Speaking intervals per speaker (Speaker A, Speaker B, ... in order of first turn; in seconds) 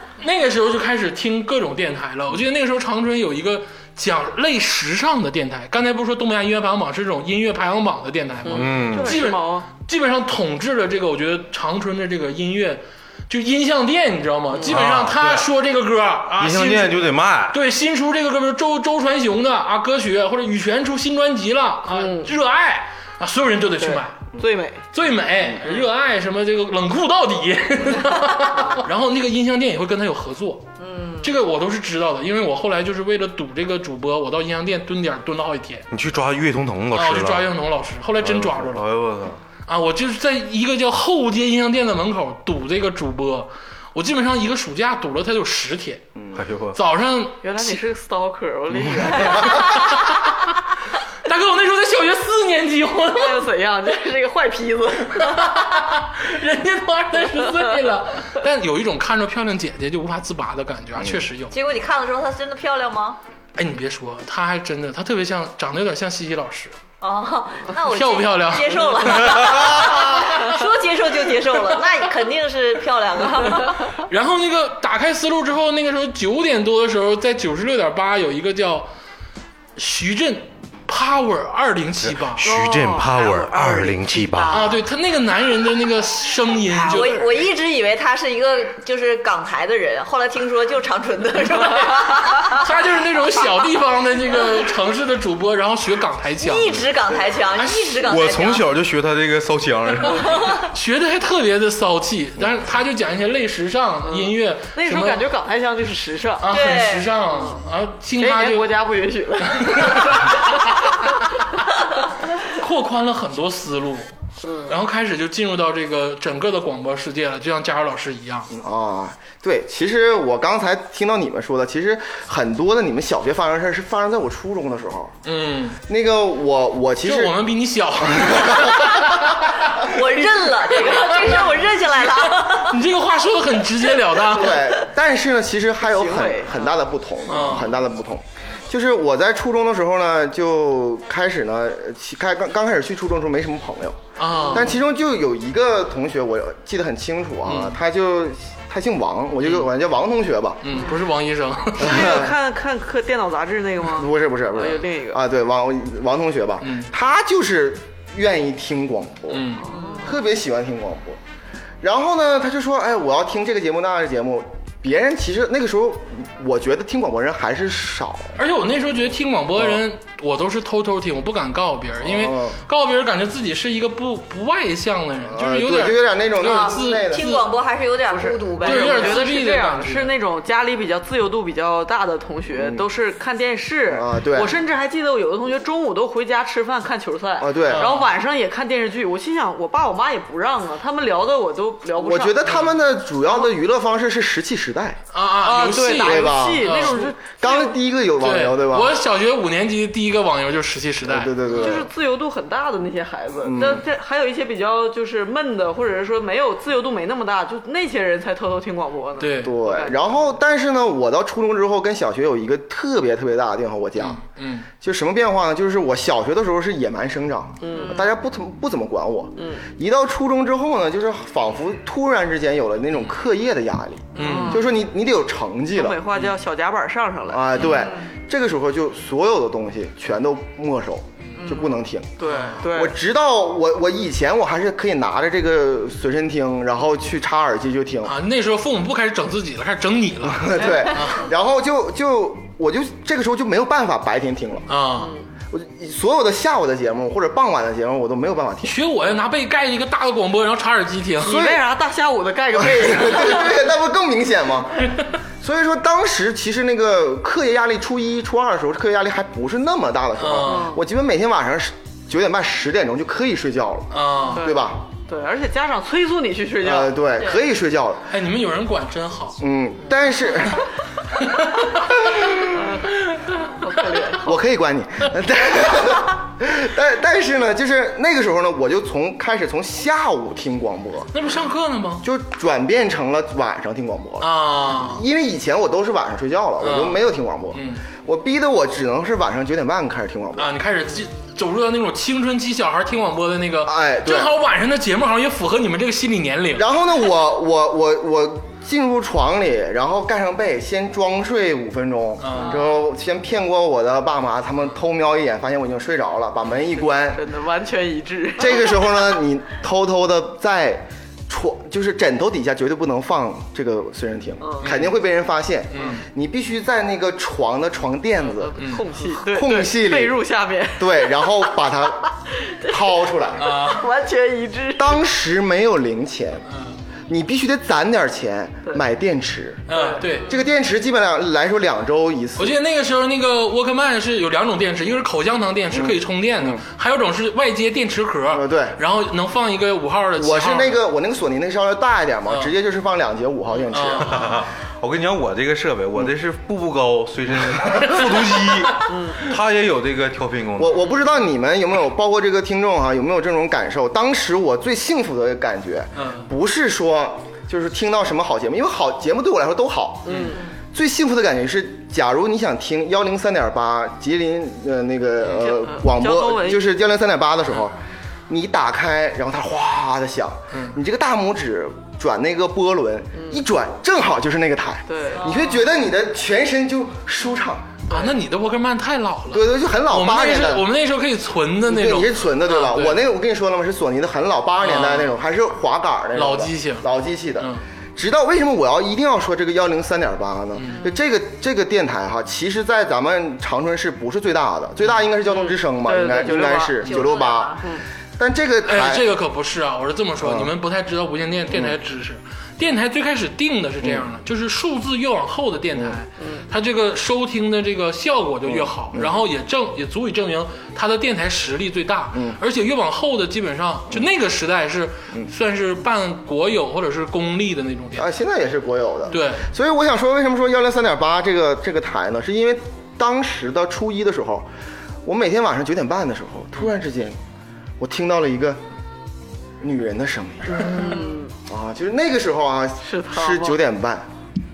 Speaker A: 0.2-24.2, 24.9-30.6, 31.2-35.9, 36.9-38.9, 39.7-46.0, 46.7-47.7, 49.2-50.5, 51.2-53.4, 55.1-61.5, 63.5-66.7, 67.9-70.2, 74.0-78.9, 79.8-82.4, 84.5-87.2, 92.5-96.8, 100.7-105.2, 106.4-108.8, 109.5-111.6, 112.4-114.1, 114.7-118.5, 125.2-125.8, 127.0-129.9, 130.7-131.5, 132.2-134.6, 137.3-137.7, 144.2-144.7, 147.5-147.7, 149.4-149.7, 150.6-152.2, 156.6-156.9, 159.3-159.7, 168.4-177.4, 178.6-180.1, 187.7-188.1, 192.4-192.7, 195.1-197.7, 198.2-201.8, 209.2-209.5, 214.0-214.7, 224.2-224.6, 232.2-232.6, 238.0-241.3, 244.7-245.1, 248.6-251.3, 260.2-260.7, 263.9-264.4, 268.1-269.4, 271.2-271.9, 281.1-282.1, 284.2-285.0, 286.6-287.0, 287.5-287.8, 290.4-296.7, 302.2-302.6, 314.6-314.9, 315.7-316.0, 318.6-318.8, 323.4-323.9, 326.5-326.8, 329.7-330.3, 332.4-340.8, 343.7-344.4, 355.9-356.3, 360.1-360.4, 377.9-383.0, 384.6-385.2, 386.1-386.9, 390.6-390.9, 398.6-418.1, 419.1-419.5
Speaker B: 8.4-9.7, 21.9-22.3, 23.8-24.8, 47.4-50.1, 53.1-55.5, 82.4-84.8, 86.7-87.3, 104.0-106.5, 108.2-110.5, 114.4-114.7, 135.9-136.8, 144.3-144.7, 151.8-155.2, 159.6-160.1, 178.1-192.4, 195.4-197.5, 201.6-210.1, 217.6-218.0, 219.4-219.7, 224.1-224.7, 225.7-227.7, 232.2-233.0, 251.2-253.6, 260.4-260.8, 264.3-267.0, 272.4-274.3, 306.9-308.8, 314.4-314.7, 318.2-325.0, 329.7-330.1, 348.9-349.2, 360.0-360.4, 365.2-366.7, 373.1-373.4, 374.9-375.4, 395.3-397.8, 406.2-406.4, 430.5-431.3, 432.8-433.6
Speaker C: 8.5-9.2, 14.7-15.5, 16.4-17.6, 35.9-37.5, 38.2-39.4, 46.3-46.8, 82.0-84.7, 98.0-100.4, 344.1-350.8
Speaker D: 30.8-31.3, 61.5-63.2, 67.0-74.0, 86.8-92.7, 96.4-98.7, 106.5-107.1, 129.8-132.8, 159.7-160.1, 176.4-179.3, 227.8-228.0, 231.4-231.7, 375.2-375.6, 396.8-397.7
Speaker E: 118.5-125.2, 125.9-127.3, 128.0-129.2, 134.3-144.0, 144.5-150.6, 151.8-152.3, 153.8-159.5, 160.0-161.2, 161.8-168.4, 169.6-169.8, 172.0-172.6, 175.2-177.4, 182.5-182.9, 183.9-184.5, 187.4-187.9, 192.0-195.0, 195.9-198.9, 201.1-201.9, 203.4-203.8, 209.4-214.2, 214.8-226.1, 227.3-238.1, 240.2-244.7, 245.5-248.7, 251.2-251.6, 252.6-264.8, 266.6-268.1, 269.4-270.7, 272.1-272.6, 274.2-281.1, 282.0-290.5, 293.6-294.3, 296.5-307.2, 308.4-320.2, 320.8-323.6, 324.8-326.4, 327.1-329.6, 330.2-332.6, 335.7-336.6, 338.3-338.8, 340.2-344.4, 350.6-367.8, 368.3-377.8, 379.3-380.6, 381.6-399.1, 400.2-400.5, 408.4-409.2, 412.1-412.4, 417.9-424.5, 425.0-427.2, 427.8-428.6, 429.6-434.1